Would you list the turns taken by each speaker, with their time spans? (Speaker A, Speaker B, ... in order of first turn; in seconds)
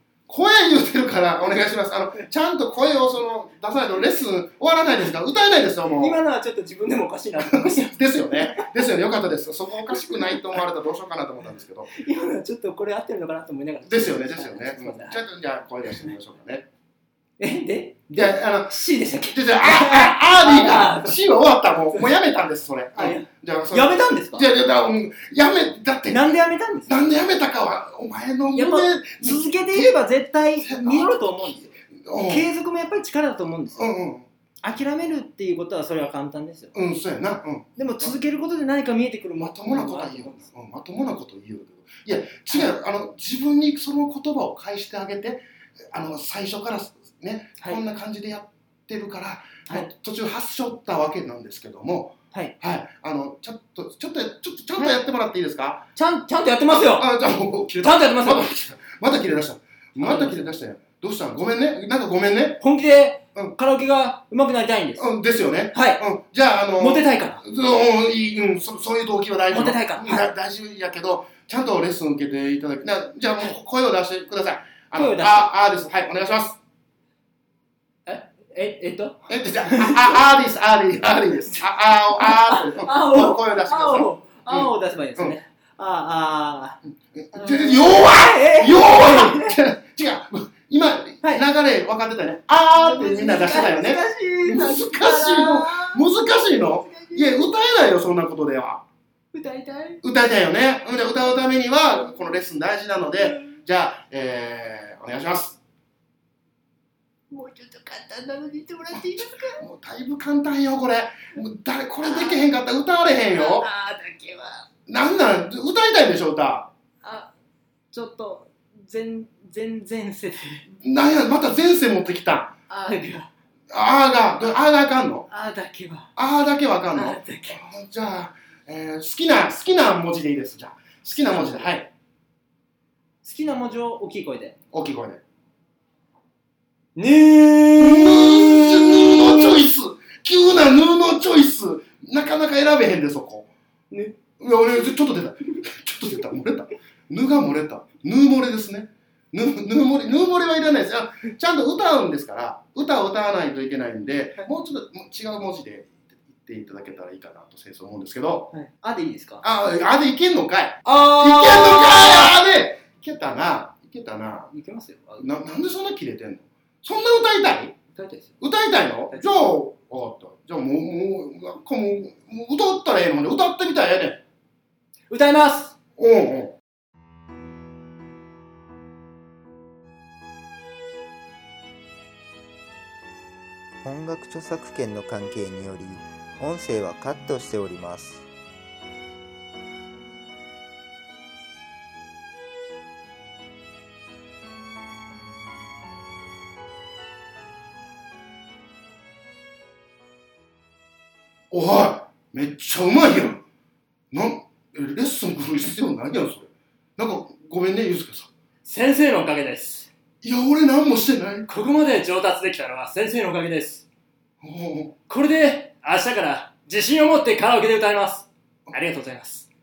Speaker A: 0.3-6.2, 7.4-11.9, 13.8-16.7, 18.1-26.4, 26.9-29.9, 30.6-32.5, 33.8-34.3, 36.7-38.2, 39.4-55.9, 57.0-62.6, 65.0-76.6, 79.3-85.3, 87.1-98.8, 100.0-105.6, 108.9-113.7, 114.9-116.7, 120.8-122.5, 123.7-125.3, 126.2-131.9, 134.7-135.2, 137.8-143.5, 144.4-158.5, 159.4-164.5, 165.2-167.8, 168.4-174.2, 176.0-176.5, 201.5-203.4, 204.1-208.3, 210.2-211.5, 214.4-215.0
Speaker B: 6.0-8.7, 9.9-10.6, 11.9-15.2, 17.4-21.2, 22.9-24.5, 26.1-26.9, 28.5-33.8, 34.6-36.7, 37.8-40.5, 56.0-57.1, 57.8-58.4, 60.0-60.5, 62.6-65.0, 65.7-66.0, 66.8-67.4, 69.5-70.3, 74.9-75.5, 78.0-80.1, 82.2-86.8, 87.3-89.5, 92.7-97.5, 99.3-100.0, 101.9-102.2, 103.2-103.5, 107.3-109.7, 112.0-112.4, 113.3-114.7, 117.0-117.3, 117.9-120.6, 122.7-123.3, 125.3-126.1, 126.9-127.6, 131.2-131.7, 133.2-134.6, 136.9-139.6, 158.5-159.4, 160.8-162.3, 164.5-165.2, 167.9-168.3, 175.1-175.7, 208.6-209.9, 211.5-213.8, 215.1-219.5
Speaker C: 183.8-188.3